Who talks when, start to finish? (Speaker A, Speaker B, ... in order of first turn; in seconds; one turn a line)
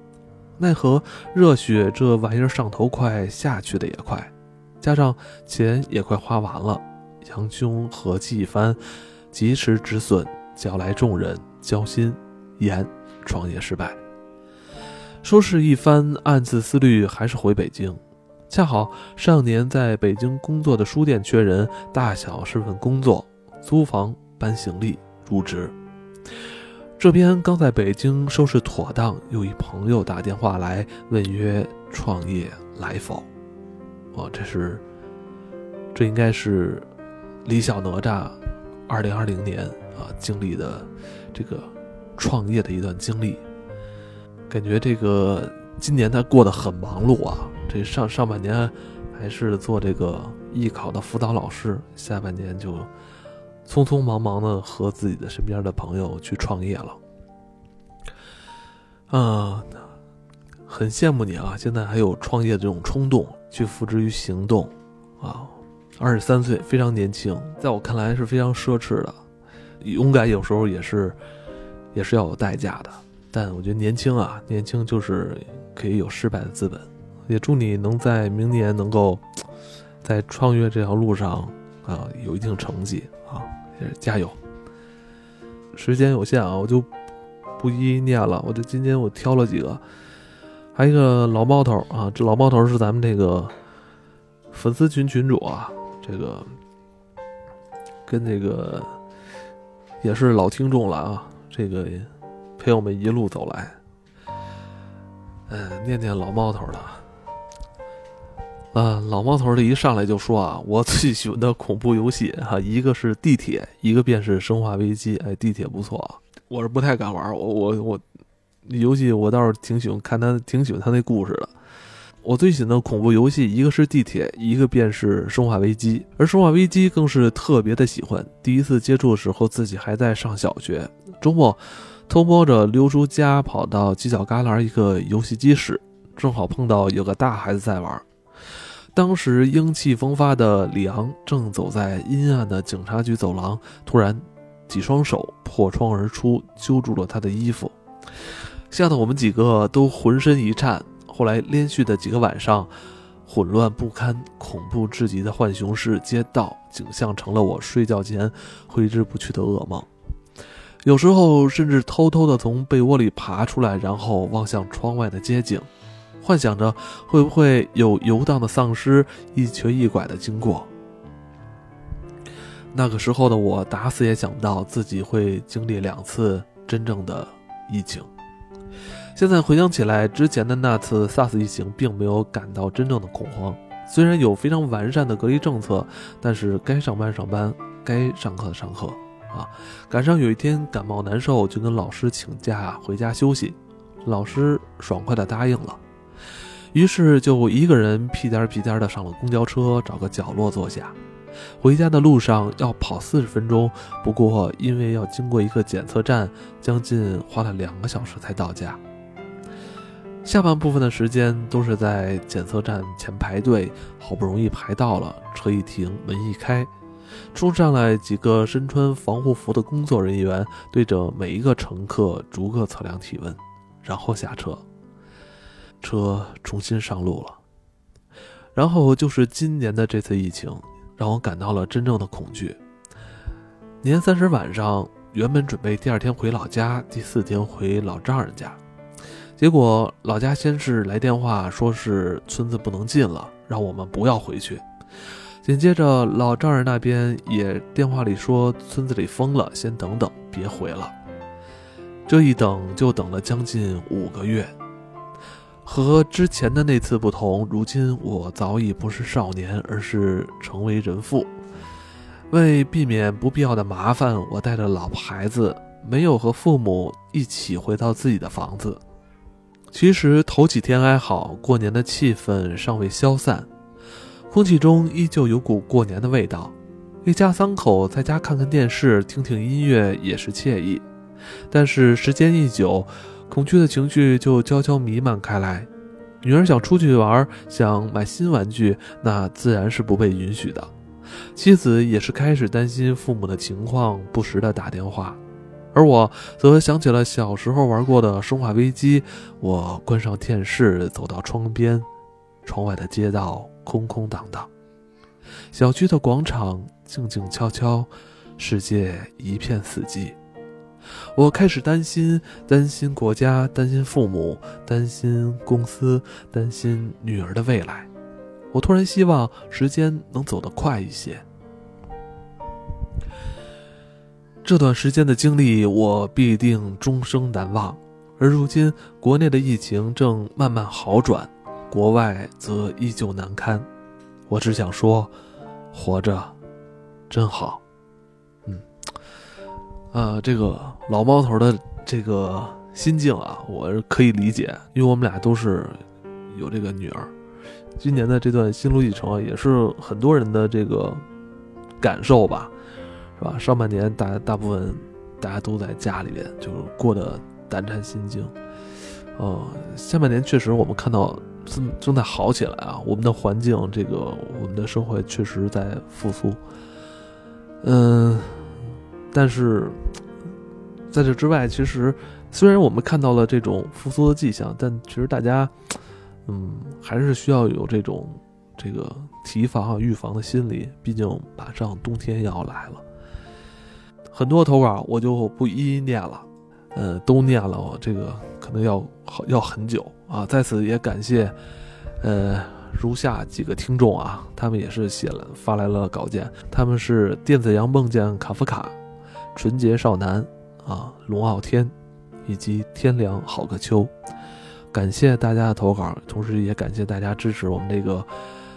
Speaker A: 0.6-8.8
Speaker A: 9.3-14.0
Speaker A: 15.2-25.7
Speaker A: 27.0-33.3
Speaker A: 34.1-34.8
Speaker A: 35.9-36.9
Speaker A: 37.4-38.4
Speaker A: 38.9-43.4
Speaker A: 44.5-52.9
Speaker A: 53.6-57.0
Speaker A: 59.1-59.9
Speaker A: 60.7-69.2
Speaker A: 69.8-71.2
Speaker A: 71.9-79.2
Speaker A: 80.0-84.4
Speaker A: 85.7-86.9
Speaker A: 87.6-89.8
Speaker A: 90.7-93.5
Speaker A: 94.5-96.5
Speaker A: 98.0-98.9
Speaker A: 100.0-103.8
Speaker A: 105.5-107.0
Speaker A: 108.7-118.0
Speaker A: 118.7-121.5
Speaker A: 122.2-138.0
Speaker A: 138.9-147.7
Speaker A: 148.7-152.7
Speaker A: 153.3-159.9
Speaker A: 160.8-165.7
Speaker A: 166.2-170.7
Speaker A: 172.7-178.1
Speaker A: 179.1-195.8
Speaker A: 196.7-200.9
Speaker A: 201.6-208.8
Speaker A: 210.2-216.7
Speaker A: 217.3-224.6
Speaker A: 225.8-227.4
Speaker A: 228.6-232.6
Speaker A: 233.8-238.6
Speaker A: 239.4-244.6
Speaker A: 245.4-250.9
Speaker A: 252.1-254.5
Speaker A: 255.6-261.4
Speaker A: 262.3-268.8
Speaker A: 269.7-273.5
Speaker A: 274.3-280.8
Speaker A: 281.5-285.7
Speaker A: 286.2-290.7
Speaker A: 291.4-295.2
Speaker A: 295.7-301.9
Speaker A: 302.4-304.5
Speaker A: 305.5-310.2
Speaker A: 311.1-317.9
Speaker A: 318.5-321.2
Speaker A: 324.4-333.7
Speaker A: 334.3-335.1
Speaker A: 335.7-336.4
Speaker A: 337.1-337.6
Speaker A: 339.9-347.1
Speaker A: 347.8-351.0
Speaker A: 351.8-352.5
Speaker A: 353.2-358.3
Speaker A: 359.2-366.4
Speaker A: 367.6-369.8
Speaker A: 370.9-375.5
Speaker A: 376.3-382.8
Speaker A: 384.1-391.4
Speaker A: 392.0-398.8
Speaker A: 399.4-401.7
Speaker A: 402.2-403.9
Speaker A: 404.7-408.1